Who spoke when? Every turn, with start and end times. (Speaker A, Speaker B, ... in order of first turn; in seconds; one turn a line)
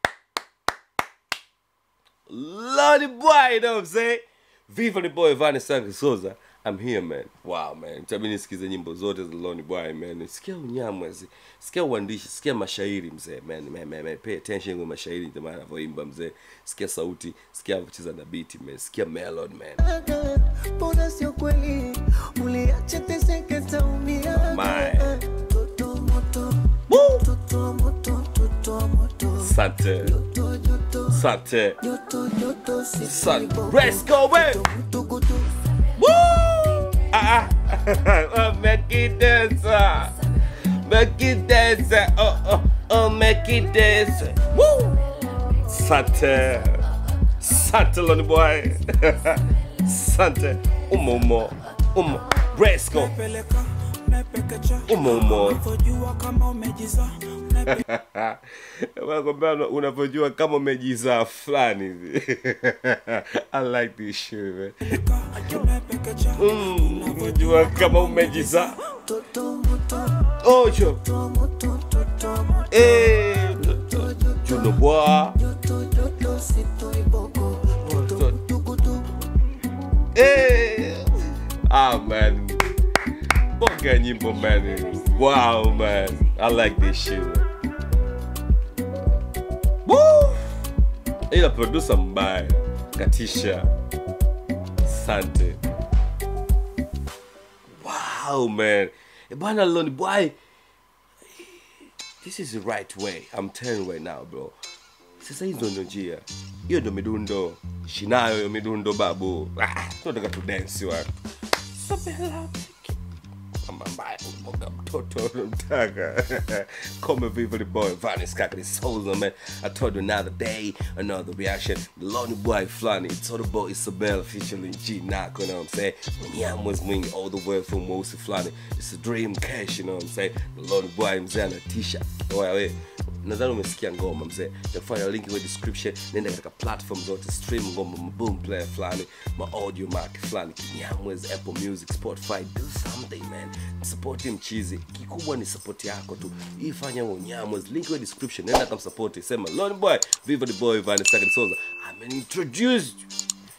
Speaker A: 2.3-19.8
Speaker B: 19.8-31.2
Speaker A: 24.3-25.2
Speaker A: 26.9-27.2
Speaker A: 29.4-30.1
Speaker A: 31.1-31.8
Speaker B: 31.8-35.5
Speaker A: 33.0-34.6
Speaker A: 36.0-45.0
Speaker A: 45.6-46.9
Speaker A: 47.4-53.1
Speaker C: 52.9-57.9
Speaker A: 54.9-55.6
Speaker A: 57.7-64.9
Speaker C: 64.9-68.8
Speaker A: 66.4-68.8
Speaker B: 69.0-70.3
Speaker A: 70.4-71.0
Speaker B: 70.9-74.7
Speaker A: 72.7-75.4
Speaker B: 75.4-79.1
Speaker A: 77.8-78.4
Speaker A: 80.1-82.7
Speaker A: 83.6-87.5
Speaker A: 89.8-90.6
Speaker A: 91.3-93.7
Speaker A: 94.8-95.6
Speaker A: 97.7-100.4
Speaker A: 101.3-101.7
Speaker A: 102.2-104.5
Speaker A: 105.2-111.1
Speaker A: 111.7-113.0
Speaker A: 113.6-153.1